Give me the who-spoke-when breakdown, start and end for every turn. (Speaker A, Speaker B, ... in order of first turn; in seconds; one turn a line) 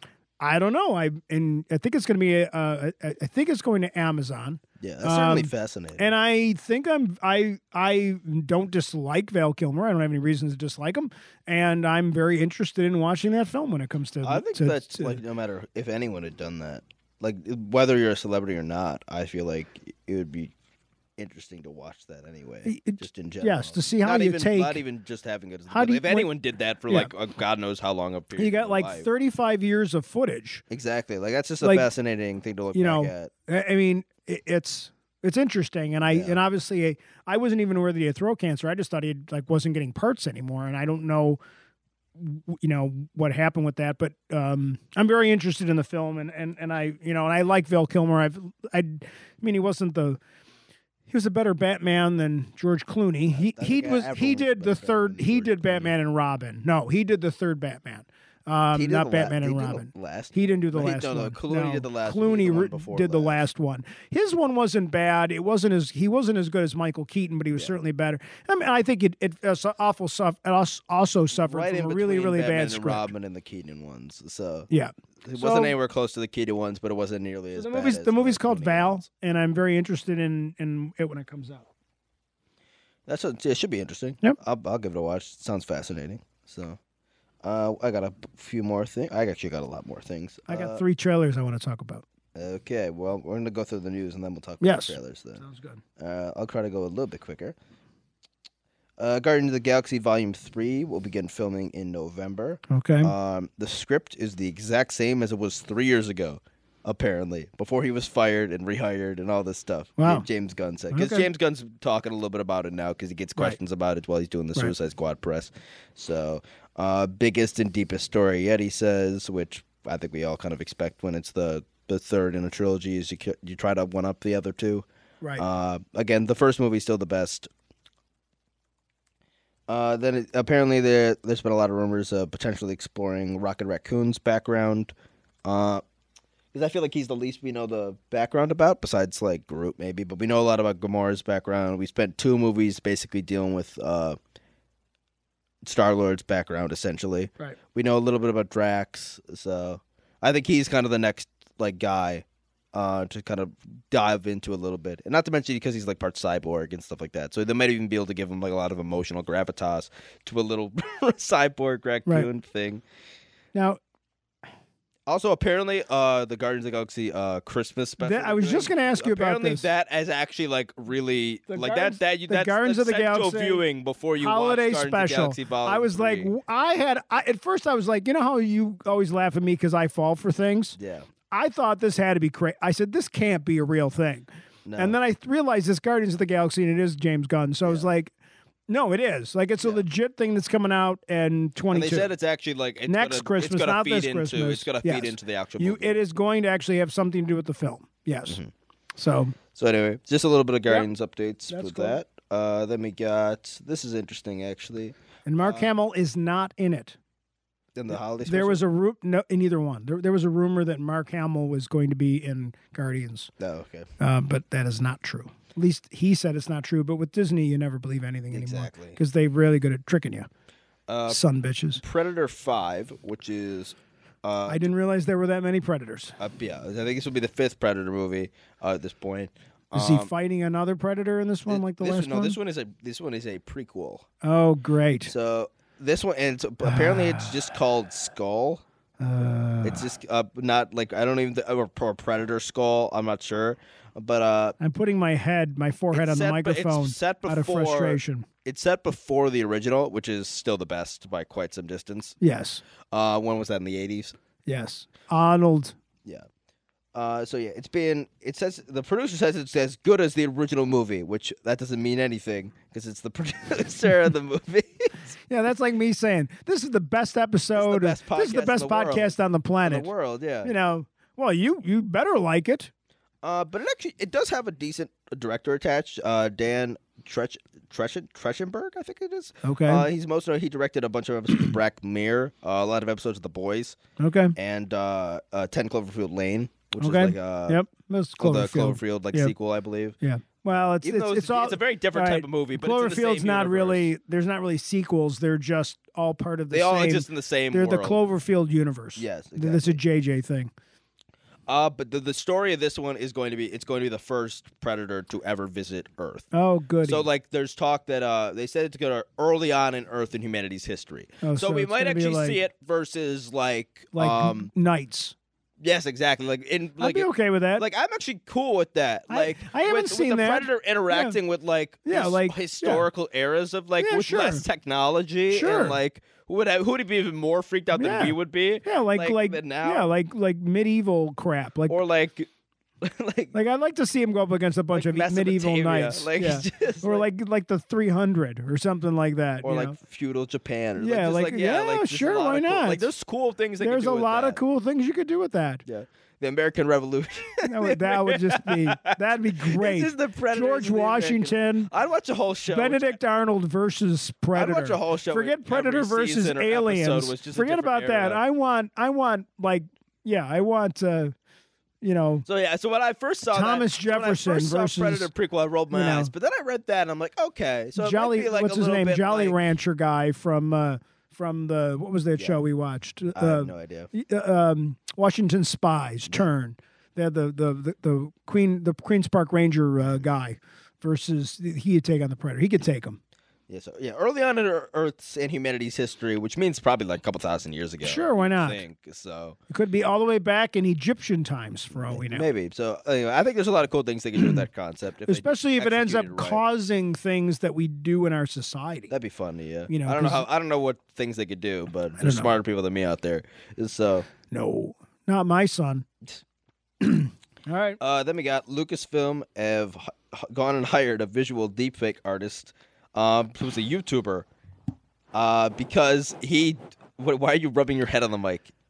Speaker A: 0.4-15.2
Speaker B: 4.8-6.0
Speaker B: 14.2-20.5
Speaker B: 21.2-29.1
Speaker A: 22.6-24.8
Speaker A: 25.7-26.3
Speaker A: 28.4-30.6
Speaker B: 30.7-33.3
Speaker A: 31.6-31.9
Speaker A: 32.7-41.4
Speaker B: 36.1-36.4
Speaker A: 42.2-50.2
Speaker A: 51.1-73.1
Speaker B: 53.3-55.9
Speaker B: 58.7-63.4
Speaker B: 71.3-74.7
Speaker A: 74.7-75.7
Speaker B: 75.2-79.0
Speaker A: 77.5-81.7
Speaker B: 83.1-86.8
Speaker B: 87.4-90.8
Speaker A: 90.5-92.0
Speaker B: 92.3-95.4
Speaker A: 94.6-95.8
Speaker B: 96.0-97.5
Speaker B: 99.0-124.8
Speaker A: 102.7-103.1
Speaker A: 110.0-110.2
Speaker A: 110.9-111.3
Speaker B: 125.4-127.5
Speaker B: 129.7-134.9
Speaker B: 135.4-135.8
Speaker B: 136.5-144.2
Speaker B: 145.6-162.8
Speaker A: 163.5-163.8
Speaker B: 165.1-176.3
Speaker A: 168.0-169.6
Speaker A: 171.5-173.6
Speaker A: 174.2-180.8
Speaker B: 180.8-181.1
Speaker A: 181.3-188.1
Speaker B: 184.6-185.0
Speaker A: 188.7-192.1
Speaker B: 191.7-196.0
Speaker A: 192.9-198.4
Speaker A: 199.0-199.3
Speaker B: 199.5-205.7
Speaker A: 201.5-202.0
Speaker A: 205.2-207.0
Speaker B: 207.7-208.6
Speaker A: 208.2-213.3
Speaker B: 213.4-213.9
Speaker A: 214.0-220.3
Speaker B: 218.3-219.0
Speaker B: 220.9-221.2
Speaker A: 221.1-221.8
Speaker B: 221.8-224.7
Speaker A: 224.5-226.2
Speaker B: 226.2-230.1
Speaker A: 229.7-232.4
Speaker B: 231.5-234.1
Speaker A: 234.2-235.1
Speaker B: 235.1-238.6
Speaker A: 236.6-237.3
Speaker A: 239.0-239.8
Speaker B: 239.6-244.6
Speaker A: 244.6-248.2
Speaker B: 245.9-252.2
Speaker A: 252.2-252.6
Speaker B: 252.9-254.2
Speaker A: 254.4-255.7
Speaker B: 256.9-265.1
Speaker A: 265.3-269.9
Speaker B: 267.5-270.5
Speaker A: 270.4-272.7
Speaker B: 273.2-283.8
Speaker A: 279.4-279.9
Speaker A: 284.0-284.3
Speaker B: 284.4-287.6
Speaker A: 286.8-289.3
Speaker B: 288.2-289.9
Speaker A: 290.0-300.5
Speaker B: 290.5-293.9
Speaker B: 296.5-298.0
Speaker B: 299.0-299.8
Speaker B: 301.5-306.3
Speaker A: 306.3-307.0
Speaker B: 306.8-314.5
Speaker A: 311.2-312.4
Speaker A: 313.9-315.1
Speaker B: 315.6-329.9
Speaker A: 316.8-317.6
Speaker A: 319.1-321.2
Speaker A: 321.8-322.9
Speaker A: 323.8-324.4
Speaker A: 325.3-325.8
Speaker A: 327.7-331.8
Speaker B: 331.7-332.3
Speaker B: 332.8-333.3
Speaker A: 333.3-339.8
Speaker B: 334.7-337.1
Speaker B: 339.4-344.4
Speaker A: 340.8-342.9
Speaker A: 343.6-345.6
Speaker B: 345.6-352.9
Speaker A: 347.4-351.7
Speaker A: 352.5-361.1
Speaker B: 354.3-358.2
Speaker A: 361.8-362.2
Speaker B: 362.2-369.4
Speaker A: 363.3-365.1
Speaker A: 365.7-366.1
Speaker A: 367.8-383.0
Speaker B: 373.1-373.9
Speaker B: 383.5-389.4
Speaker A: 387.8-388.6
Speaker A: 389.5-392.3
Speaker B: 391.7-396.4
Speaker A: 395.1-398.9
Speaker B: 398.9-404.1
Speaker A: 399.7-400.2
Speaker A: 402.0-402.3
Speaker A: 404.3-405.9
Speaker A: 406.8-407.8
Speaker B: 407.8-414.3
Speaker B: 415.1-418.5